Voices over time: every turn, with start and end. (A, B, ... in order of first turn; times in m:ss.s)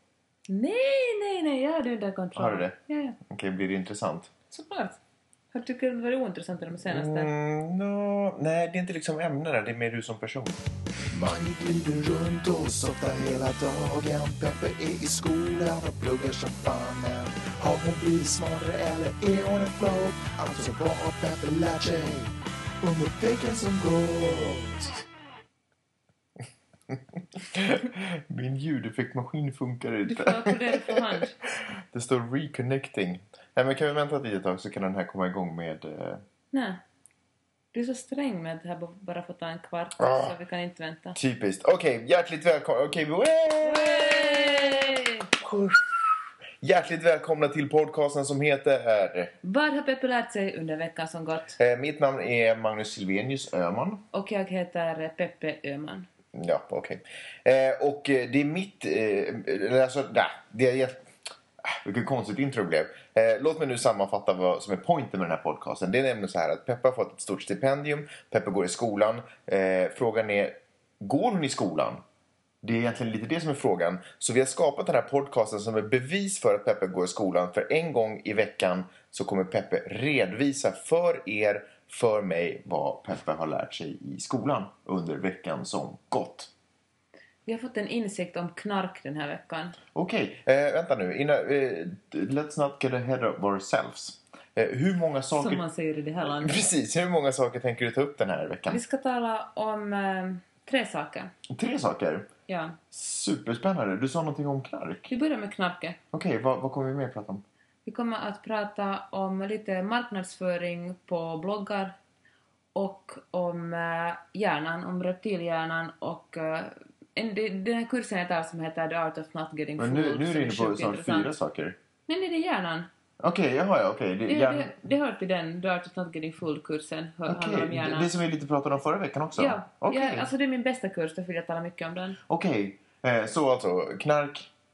0:00.5-0:03.2 A
0:02.4-0:04.3 B
0:04.5-0:05.0 A
0:05.5-0:07.3 A
0:06.9-0:10.6 B
0:11.1-0:25.0 C
0:26.9-0:36.2 B
0:30.1-0:31.4 A
0:36.5-0:36.8 A
0:37.7-0:41.2 A
0:40.0-0:40.3 B
0:41.2-0:45.8 B
0:43.6-0:45.3 A
0:46.6-0:49.3 B
0:49.4-0:51.6 A
0:51.6-0:54.0 B
0:54.1-0:56.1 A
0:56.4-1:01.0 B
1:01.7-1:12.0 B
1:12.6-1:26.5 B
1:27.5-1:29.8 A
1:29.9-1:35.6 B
1:35.3-1:36.7 A
1:36.4-1:38.8 B
1:38.7-1:41.3 A
1:41.5-1:42.3 B
1:42.5-1:42.8 A
1:42.9-1:45.1 B
1:45.1-1:46.0 A
1:46.1-1:47.4 B
1:47.9-1:52.0 A
1:52.8-2:01.3 A
1:59.8-2:01.8 B
2:02.1-2:02.9 A
2:03.2-2:04.8 B
2:04.3-2:08.1 A
2:07.3-2:10.3 B
2:09.4-2:12.2 A
2:12.3-2:14.5 B